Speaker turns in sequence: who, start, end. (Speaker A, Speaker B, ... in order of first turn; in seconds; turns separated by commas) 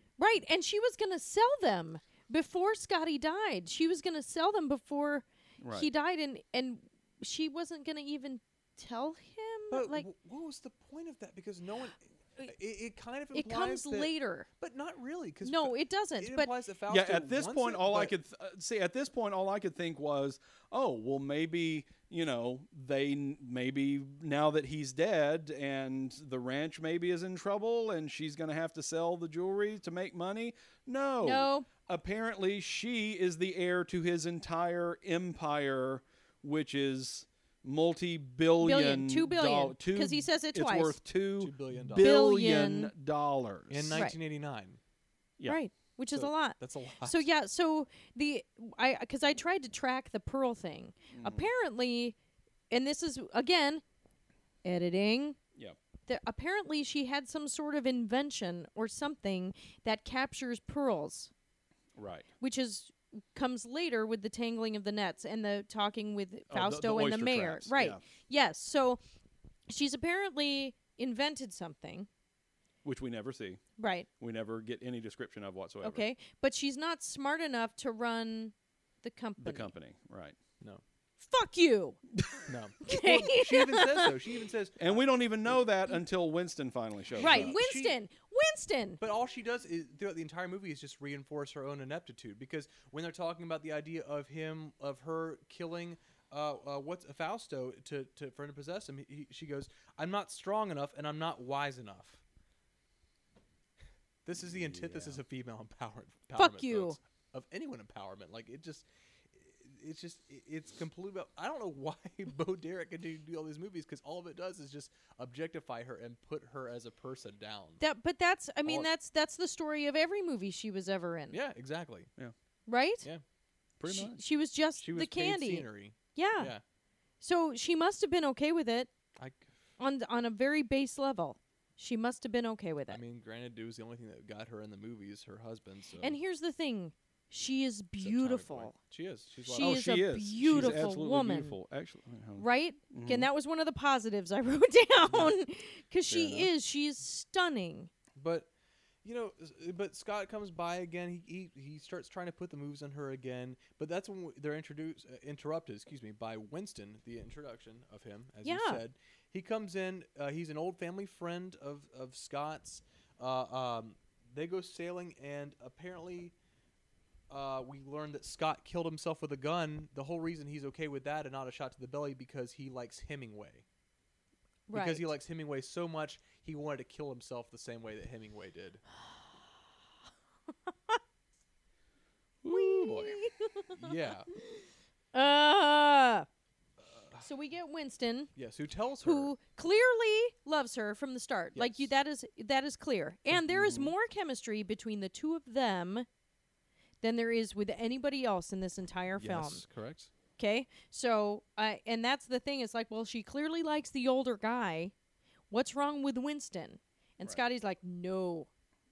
Speaker A: 0.2-10.1, Speaker B: 5.6-5.9, Speaker C: 9.7-18.1, Speaker A: 13.3-14.5, Speaker A: 15.4-16.5, Speaker B: 16.9-44.1, Speaker A: 31.2-31.7, Speaker A: 38.6-41.0, Speaker C: 41.4-42.1, Speaker A: 42.0-42.9, Speaker C: 43.7-44.8, Speaker A: 45.5-52.2, Speaker C: 46.1-47.3, Speaker B: 51.1-51.5, Speaker A: 52.7-53.8, Speaker A: 54.6-55.4, Speaker A: 56.1-61.3, Speaker B: 62.0-62.3, Speaker A: 62.4-69.0, Speaker B: 66.5-68.0, Speaker A: 69.7-72.1, Speaker B: 72.8-73.6, Speaker A: 73.8-74.1, Speaker B: 74.2-76.1, Speaker A: 75.8-79.7, Speaker B: 79.4-80.4, Speaker A: 81.2-82.0, Speaker C: 82.5-85.0, Speaker A: 82.9-84.1, Speaker B: 84.8-87.5, Speaker A: 87.2-89.0, Speaker C: 87.2-88.0, Speaker C: 89.0-102.2, Speaker C: 104.2-117.8, Speaker B: 104.5-105.2, Speaker A: 106.4-107.0, Speaker A: 117.8-121.4, Speaker C: 121.3-122.1, Speaker A: 122.7-123.1, Speaker B: 123.8-124.2, Speaker A: 123.9-126.5, Speaker C: 124.8-126.6, Speaker A: 127.2-128.9, Speaker C: 129.2-129.5, Speaker A: 129.8-133.0, Speaker C: 132.9-136.2, Speaker A: 136.0-138.8, Speaker C: 138.0-139.8, Speaker A: 139.4-141.6, Speaker B: 139.6-143.3, Speaker C: 140.6-140.8, Speaker A: 142.4-147.9, Speaker C: 145.1-145.3, Speaker B: 146.1-146.4, Speaker C: 148.2-148.5, Speaker C: 149.0-166.3, Speaker A: 158.4-158.8, Speaker C: 167.3-173.6, Speaker A: 174.7-175.1, Speaker C: 174.7-178.8, Speaker B: 182.4-183.2, Speaker A: 182.5-183.7, Speaker C: 183.7-184.3, Speaker A: 185.1-186.3, Speaker C: 186.8-187.3, Speaker A: 187.2-188.3, Speaker C: 188.4-189.3, Speaker A: 189.0-196.1, Speaker C: 191.6-191.9, Speaker C: 193.5-193.8, Speaker A: 197.0-199.6, Speaker C: 199.2-200.1, Speaker A: 200.4-204.9, Speaker A: 205.5-208.5